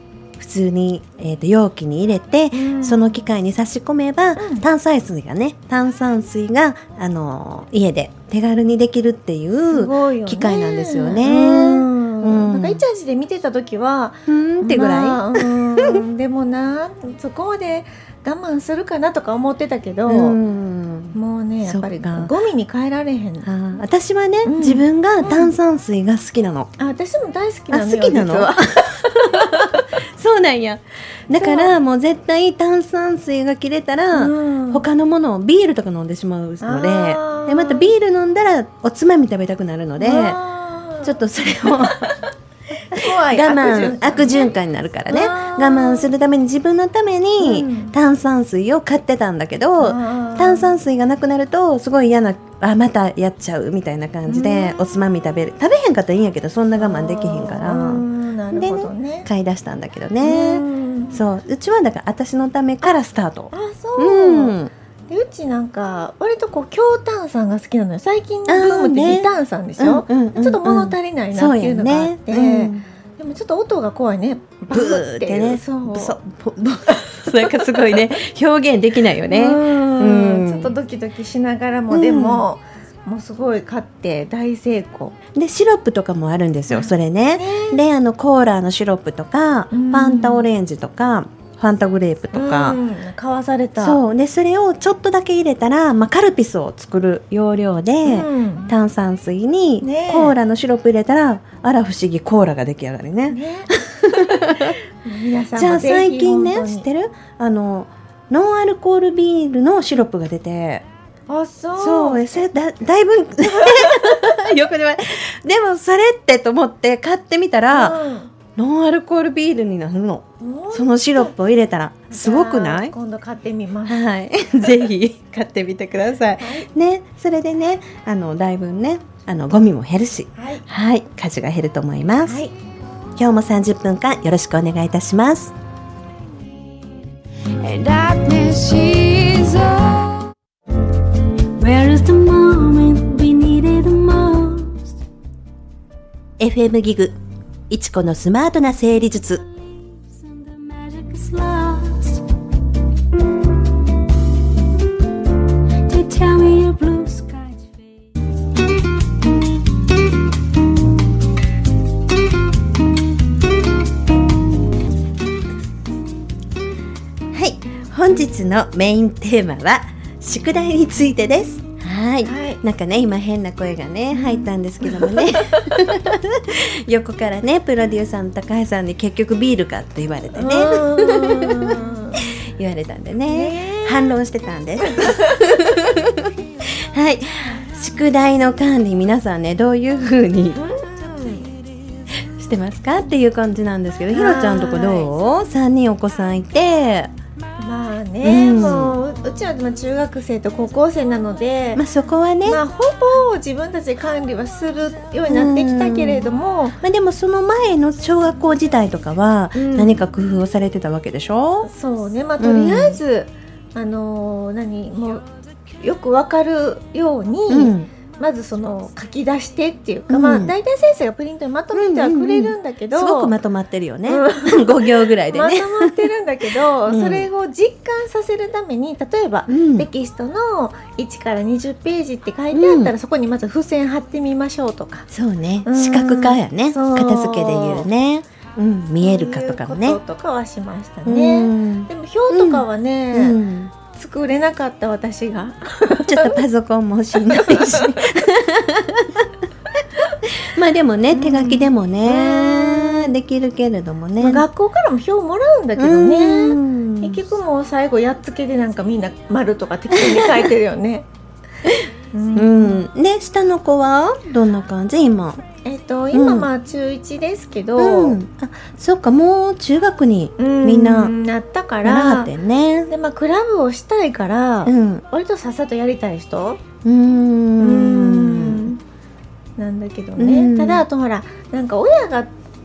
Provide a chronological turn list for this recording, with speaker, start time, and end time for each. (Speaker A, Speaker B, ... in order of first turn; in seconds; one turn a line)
Speaker A: 0.3-12.8
Speaker B: 2.5-3.2
Speaker B: 4.4-4.6
Speaker B: 9.7-20.4
Speaker A: 14.3-16.0
Speaker A: 20.1-22.3
Speaker B: 21.1-23.5
Speaker A: 23.4-26.7
Speaker B: 24.4-25.5
Speaker B: 26.8-29.8
Speaker A: 27.7-40.4
Speaker B: 31.4-31.7
Speaker B: 34.1-34.8
Speaker B: 36.6-37.9
Speaker B: 40.0-44.5
Speaker A: 41.0-42.0
Speaker A: 43.0-64.7
Speaker B: 45.1-46.1
Speaker B: 47.4-47.9
Speaker B: 49.8-50.8
Speaker B: 54.3-54.8
Speaker B: 56.8-59.3
Speaker B: 60.2-61.1
Speaker B: 63.5-64.6
Speaker B: 65.1-76.2
Speaker A: 68.5-72.8
Speaker A: 74.7-80.7
Speaker B: 77.1-77.8
Speaker B: 79.3-85.2
Speaker A: 81.9-82.4
Speaker A: 85.3-92.8
Speaker B: 86.7-87.8
Speaker B: 89.7-90.5
Speaker B: 92.3-94.0
Speaker A: 93.8-104.8
Speaker B: 98.0-98.7
Speaker B: 99.8-100.3
Speaker B: 103.3-106.8
Speaker A: 105.5-110.8
Speaker B: 111.3-112.2
Speaker A: 111.8-118.0
Speaker B: 113.4-114.3
Speaker B: 117.7-118.3
Speaker A: 118.5-122.9
Speaker B: 120.4-121.3
Speaker B: 122.1-124.0
Speaker A: 123.8-132.4
Speaker B: 126.4-126.7
Speaker B: 130.3-130.7
Speaker B: 132.2-132.5
Speaker A: 133.2-135.5
Speaker C: 137.6-140.3
Speaker C: 141.6-144.9
Speaker A: 146.4-147.2
Speaker A: 147.7-149.4
Speaker C: 150.1-152.2
Speaker C: 155.8-157.8
Speaker A: 167.3-190.6
Speaker B: 172.2-172.6
Speaker B: 174.1-175.9
Speaker B: 180.3-182.2
Speaker B: 183.3-184.1
Speaker B: 184.9-185.2
Speaker B: 190.5-191.5
Speaker A: 192.3-197.1
Speaker B: 194.1-195.1
Speaker B: 197.6-201.8
Speaker A: 198.2-199.0
Speaker A: 201.8-202.6
Speaker B: 202.4-206.8
Speaker A: 205.3-206.3
Speaker A: 206.8-211.7
Speaker B: 209.5-209.9
Speaker B: 211.6-215.2
Speaker A: 212.4-213.0
Speaker B: 215.8-223.3
Speaker A: 217.5-217.9
Speaker A: 220.1-220.5
Speaker A: 221.7-225.9
Speaker B: 224.1-235.1
Speaker A: 226.9-227.3
Speaker A: 229.5-229.9
Speaker A: 232.5-232.9
Speaker A: 235.1-240.0
Speaker B: 235.6-237.9
Speaker B: 239.0-246.4
Speaker A: 241.0-243.7
Speaker A: 246.0-249.3
Speaker B: 247.2-248.1
Speaker A: 250.2-254.4
Speaker B: 251.1-253.1
Speaker B: 254.2-261.1
Speaker A: 255.8-257.2
Speaker A: 259.9-260.5
Speaker A: 261.7-265.4
Speaker B: 262.1-262.8
Speaker B: 265.6-268.2
Speaker A: 266.1-266.5
Speaker A: 267.8-271.1
Speaker B: 270.4-272.3
Speaker A: 271.8-272.9
Speaker B: 272.9-276.6
Speaker A: 274.6-275.0
Speaker A: 276.8-278.7
Speaker B: 277.6-278.8
Speaker B: 279.6-282.3
Speaker A: 280.2-280.8